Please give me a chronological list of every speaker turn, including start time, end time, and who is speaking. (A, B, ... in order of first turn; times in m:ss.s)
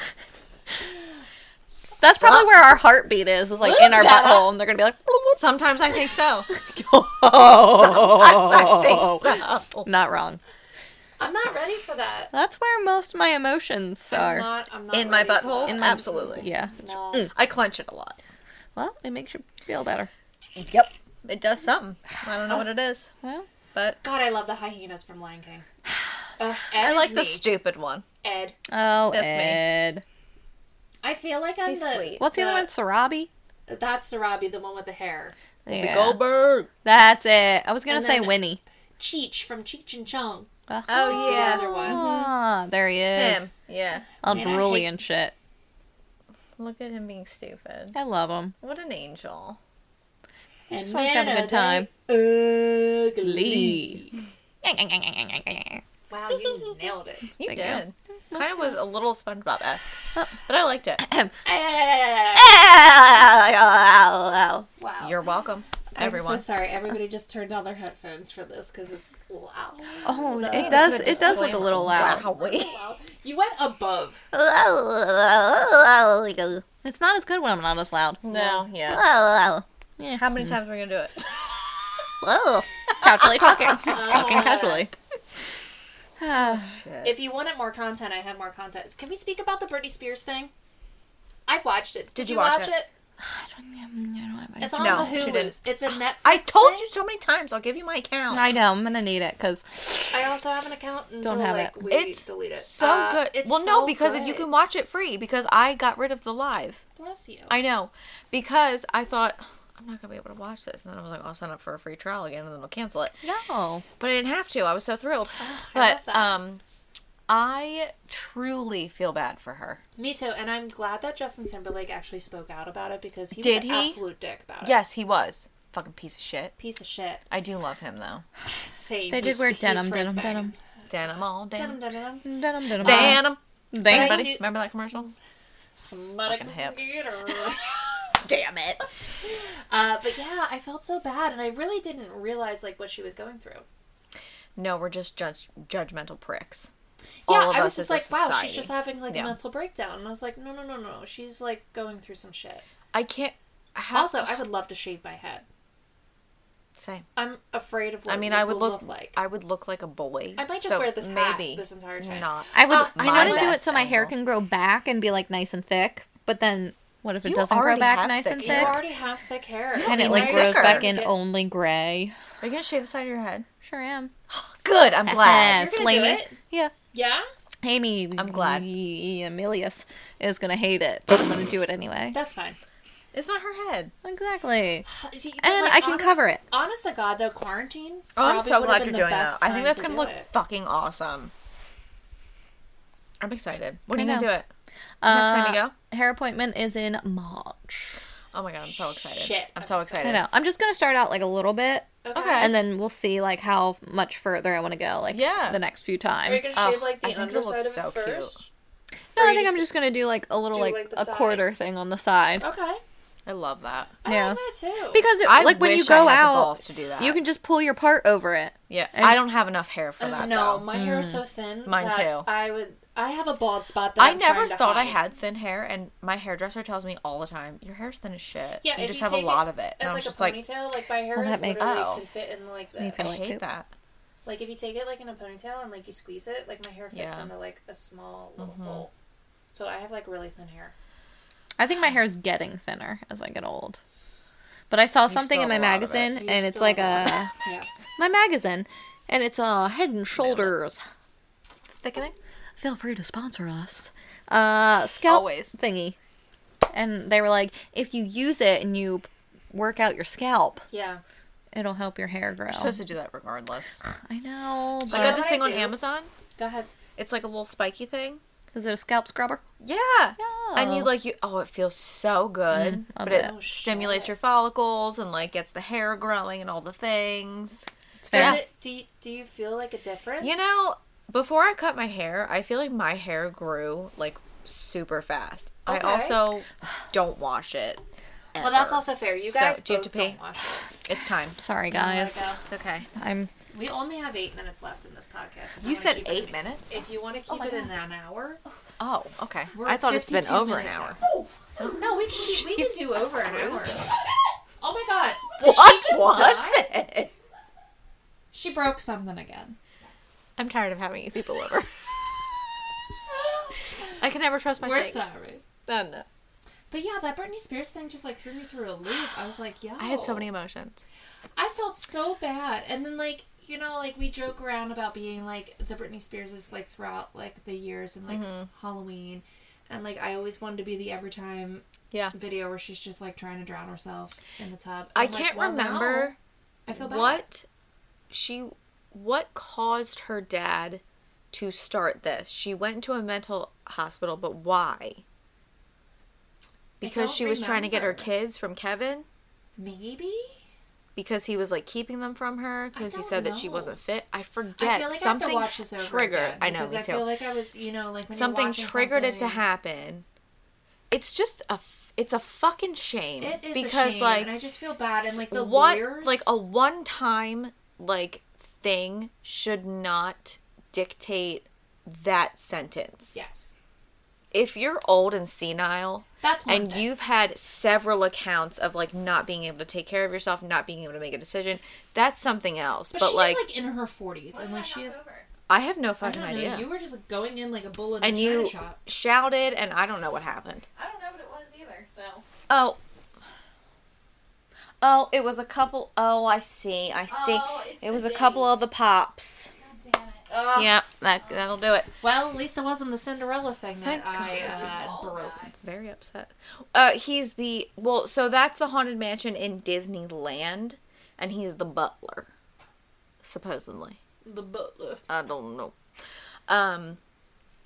0:02.0-0:05.4 A
0:02.2-0:02.6 B
0:03.7-0:04.5 B
0:05.3-0:06.5 B
0:06.5-0:10.4 A
0:07.4-0:09.9 B
0:11.2-0:12.3 C
0:12.3-0:14.5 A
0:14.1-0:17.3 C
0:14.9-0:16.5 B
0:15.7-0:17.3 A
0:17.3-0:18.2 B
0:18.8-0:20.1 A
0:20.6-0:23.1 B
0:23.7-0:24.0 B
0:24.0-0:25.6 C
0:26.4-0:27.5 C
0:26.8-0:28.0 B
0:28.2-0:28.5 C
0:28.7-0:30.0 A
0:29.1-0:29.6 B
0:31.0-0:32.7 C
0:31.6-0:32.2 B
0:32.2-0:33.3 A
0:33.7-0:35.3 C
0:35.6-0:36.2 A
0:35.7-0:36.7 B
0:36.8-0:38.6 A
0:37.9-0:38.4 C
0:39.0-0:40.5 C
0:40.7-0:43.5 A
0:40.9-0:42.3 B
0:41.0-0:42.0 C
0:43.1-0:44.1 B
0:44.2-0:45.3 A
0:44.2-0:44.9 C
0:46.6-0:48.0 B
0:47.9-0:48.6 A
0:48.6-0:49.6 B
0:50.7-0:54.1 C
0:50.7-0:51.9 A
0:53.2-0:54.0 A
0:54.6-0:55.8 A
0:56.1-0:57.3 C
0:57.4-1:01.0 B
0:57.4-0:58.4 A
1:01.0-1:01.4 A
1:01.4-1:02.6 C
1:02.3-1:04.7 A
1:04.8-1:05.2 C
1:05.0-1:06.4 B
1:06.0-1:14.2 C
1:10.0-1:12.2 A
1:10.4-1:12.8 B
1:14.3-1:20.4 A
1:18.2-1:19.0 B
1:20.2-1:21.2 B
1:22.2-1:24.9 A
1:23.0-1:24.2 B
1:23.8-1:24.9 C
1:26.2-1:26.7 A
1:26.3-1:27.2 B
1:27.0-1:30.5 C
1:31.5-1:32.9 C
1:32.1-1:32.7 B
1:33.2-1:35.5 A
1:34.6-1:36.9 C
1:34.8-1:38.5 B
1:38.3-1:40.2 A
1:40.1-1:44.5 C
1:41.2-1:41.8 A
1:41.9-1:46.8 B
1:47.0-1:47.5 C
1:47.5-1:53.2 B
1:53.2-1:53.8 A
1:54.0-1:56.6 B
1:55.4-1:56.4 C
1:57.3-1:59.8 B
2:00.0-2:04.8 C
2:03.4-2:04.0 B
2:04.6-2:06.5 B
2:06.6-2:07.2 C
2:07.3-2:08.2 B
2:08.4-2:10.6 C
2:09.1-2:10.5 A
2:10.9-2:11.8 B
2:11.5-2:14.5 C
2:12.2-2:14.4 A
2:12.8-2:15.1 B
2:15.8-2:17.8 C
2:16.2-2:16.8 B
2:18.2-2:18.8 B
2:19.2-2:23.6 C
2:24.6-2:26.7 B
2:27.2-2:32.6 C
2:27.3-2:29.4 B
2:32.9-2:34.3 B
2:33.9-2:35.4 C
2:36.8-2:37.0 B
2:37.2-2:39.2 C
2:38.1-2:44.1 B
2:40.4-2:43.6 C
2:42.5-2:48.8 A
2:47.2-2:48.8 B
2:48.4-2:51.1 C
2:49.7-2:50.9 B
2:49.8-2:52.2 A
2:52.4-2:53.5 B
2:53.6-2:54.1 A
2:54.3-2:55.6 B
2:55.0-2:56.7 A
2:55.5-2:56.4 C
2:56.9-2:57.3 C
2:57.6-3:02.2 A
2:58.2-2:58.6 B
3:02.1-3:02.6 C
3:03.1-3:03.9 B
3:04.0-3:04.9 A
3:04.9-3:10.3 C
3:05.4-3:06.4 A
3:08.2-3:11.3 B
3:13.2-3:14.5 B
3:13.9-3:14.3 A
3:15.0-3:17.9 A
3:15.0-3:15.7 B
3:18.3-3:20.2 B
3:19.0-3:20.2 C
3:20.0-3:26.5 A
3:22.0-3:22.6 C
3:22.1-3:22.6 B
3:25.1-3:25.6 B
3:26.2-3:28.4 C
3:26.5-3:28.4 B
3:29.1-3:32.4 A
3:29.2-3:29.6 C
3:30.5-3:31.5 C
3:32.4-3:32.8 C
3:33.2-3:33.9 B
3:34.0-3:35.1 C
3:34.0-3:34.4 A
3:34.9-3:39.2 A
3:35.2-3:37.2 B
3:38.7-3:40.7 B
3:40.0-3:45.0 C
3:40.7-3:41.2 A
3:41.6-3:42.3 B
3:44.0-3:50.4 B
3:48.6-3:53.0 C
3:51.1-3:52.0 A
3:51.6-3:52.0 B
3:52.8-3:53.4 A
3:53.0-3:53.7 B
3:54.2-3:58.9 C
3:56.9-3:57.3 B
3:58.4-3:58.8 B
3:59.5-4:00.7 C
4:01.6-4:03.8 A
4:04.7-4:07.3 A
4:05.1-4:06.2 B
4:06.1-4:07.7 C
4:08.0-4:10.8 A
4:10.2-4:10.5 B
4:11.7-4:12.1 B
4:12.6-4:16.0 A
4:15.0-4:15.5 B
4:16.7-4:20.6 A
4:20.7-4:21.0 C
4:21.5-4:22.8 A
4:22.5-4:23.8 B
4:23.9-4:25.2 A
4:24.9-4:25.8 C
4:24.9-4:26.1 B
4:26.4-4:26.7 C
4:27.0-4:28.2 B
4:28.5-4:29.4 A
4:29.6-4:38.4 B
4:30.2-4:30.9 A
4:32.5-4:33.3 A
4:33.0-4:34.1 C
4:38.0-4:38.4 A
4:38.1-4:40.4 C
4:40.2-4:47.8 B
4:45.7-4:46.3 C
4:48.3-4:50.2 B
4:48.4-4:50.7 C
4:50.8-4:51.4 B
4:51.4-4:52.3 A
4:51.7-4:52.4 C
4:52.4-4:52.9 B
4:53.0-4:53.3 A
4:53.5-4:58.4 C
4:55.6-4:56.8 B
4:57.3-4:57.7 A
4:58.8-5:01.0 B
4:59.5-5:01.0 C
5:01.6-5:03.8 C
5:02.4-5:03.8 B
5:04.6-5:06.7 C
5:05.4-5:07.1 B
5:08.3-5:09.6 C
5:10.4-5:11.7 B
5:14.0-5:15.1 B
5:14.6-5:15.4 C
5:15.6-5:16.0 B
5:16.7-5:20.3 C
5:19.8-5:20.8 B
5:21.4-5:36.1 C
5:28.1-5:28.5 B
5:34.9-5:36.2 B
5:36.6-5:37.2 C
5:36.7-5:37.4 B
5:38.1-5:45.0 B
5:46.8-5:49.0 B
5:46.8-5:48.1 C
5:49.6-5:50.4 C
5:51.0-5:57.1 B
5:52.7-5:53.8 C
5:54.6-5:59.4 C
5:58.1-6:00.0 B
6:00.9-6:04.3 B
6:03.2-6:06.3 C
6:05.0-6:13.2 B
6:13.1-6:13.6 C
6:14.3-6:23.5 B
6:16.2-6:16.9 C
6:22.9-6:25.0 C
6:24.3-6:25.3 A
6:25.5-6:26.7 B
6:26.0-6:28.8 C
6:28.0-6:30.6 B
6:30.8-6:32.2 A
6:32.5-6:32.8 B
6:34.8-6:39.5 B
6:37.1-6:38.6 A
6:39.5-6:40.4 A
6:40.3-6:40.8 C
6:40.5-6:41.9 B
6:42.0-6:45.5 C
6:43.8-6:44.8 B
6:44.2-6:45.5 A
6:45.5-6:52.3 B
6:53.2-6:54.0 B
6:54.2-6:55.1 C
6:55.1-6:55.8 B
6:56.5-6:57.0 B